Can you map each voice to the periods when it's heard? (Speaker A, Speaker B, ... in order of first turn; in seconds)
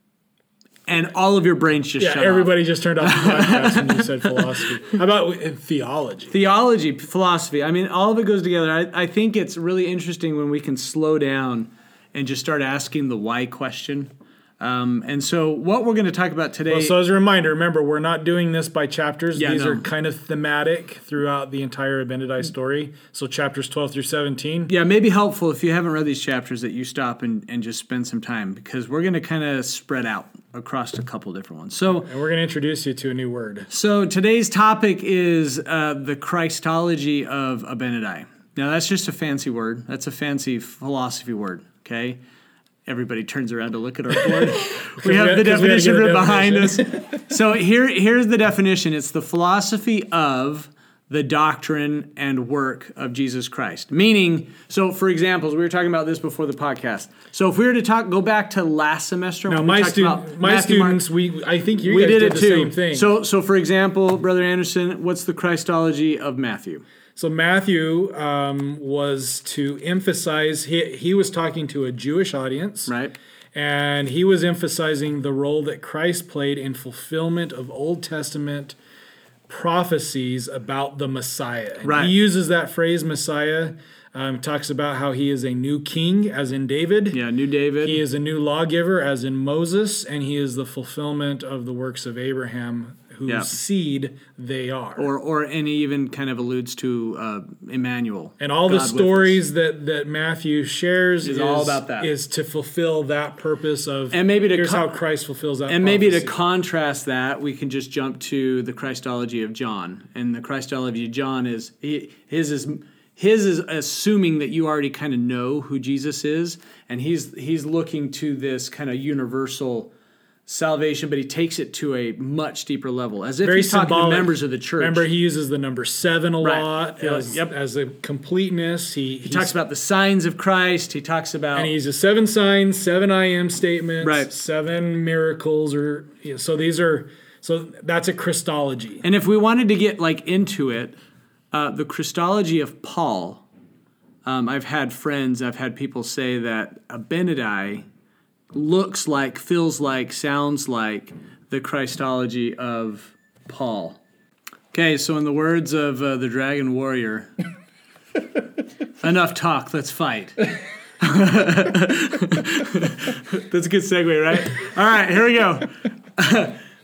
Speaker A: 0.9-4.9, 6.3-17.0, 19.4-19.9, 24.7-32.1, 33.7-42.2, 42.9-61.0, 61.8-66.8, 72.9-73.2, 81.8-82.1, 87.1-88.0, 95.0-99.4, 101.2-102.1, 104.1-105.0, 105.7-119.9, 120.5-125.0, 126.4-127.5, 129.2-131.7, 134.0-134.3, 139.0-141.0, 141.5-143.4, 144.2-147.9, 148.5-154.0, 154.7-157.3, 159.0-160.4, 161.0-166.6
Speaker B: 2.0-6.3, 16.7-24.7, 32.0-33.7, 44.4-47.1, 59.5-63.1, 67.2-72.9, 73.5-78.8, 79.5-87.2, 87.8-95.1, 98.4-106.4, 123.4-129.5, 131.5-139.0